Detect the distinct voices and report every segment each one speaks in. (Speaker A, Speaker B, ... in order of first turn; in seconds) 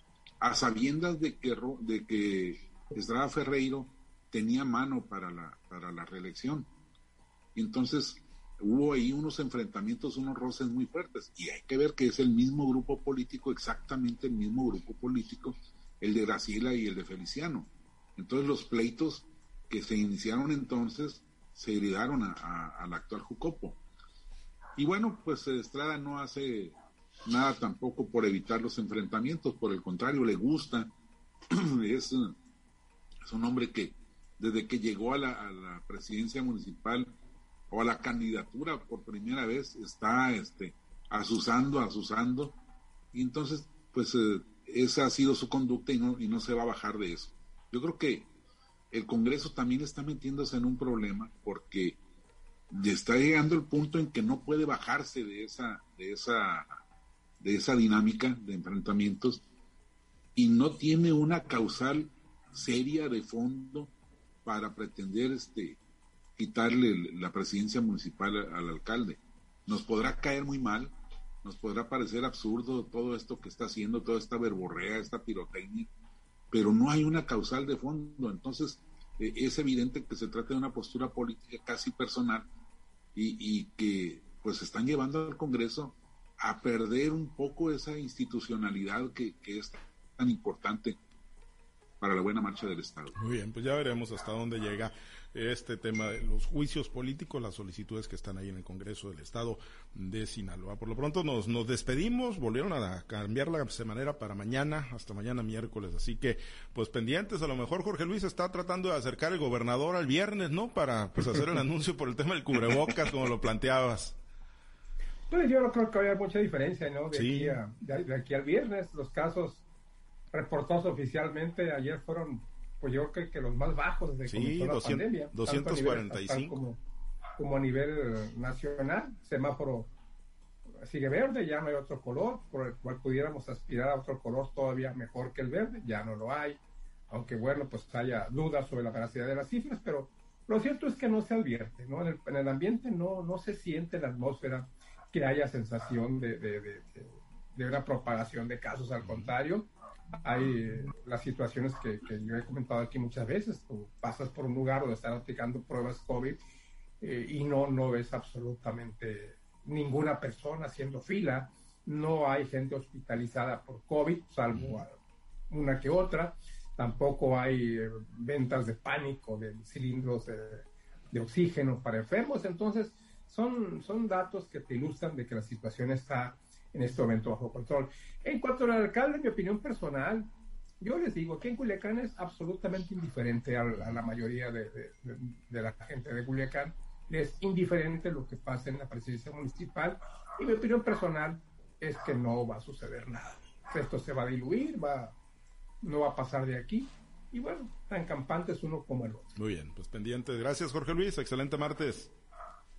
Speaker A: 0.4-6.7, 7.5-23.8, 24.8-30.9, 31.5-32.4, 33.2-37.1, 37.7-42.6, 43.1-48.3, 48.9-52.0, 52.7-56.8, 57.4-59.4, 60.4-63.9, 64.4-65.8, 66.4-75.9, 76.5-82.5, 83.1-91.0, 92.0-93.2
Speaker B: 93.2-114.2, 117.1-117.6, 124.3-126.6, 199.3-202.1
Speaker C: 115.3-119.6, 120.3-126.8, 127.4-129.9, 130.8-156.4, 157.0-165.0, 165.5-195.1, 195.8-199.3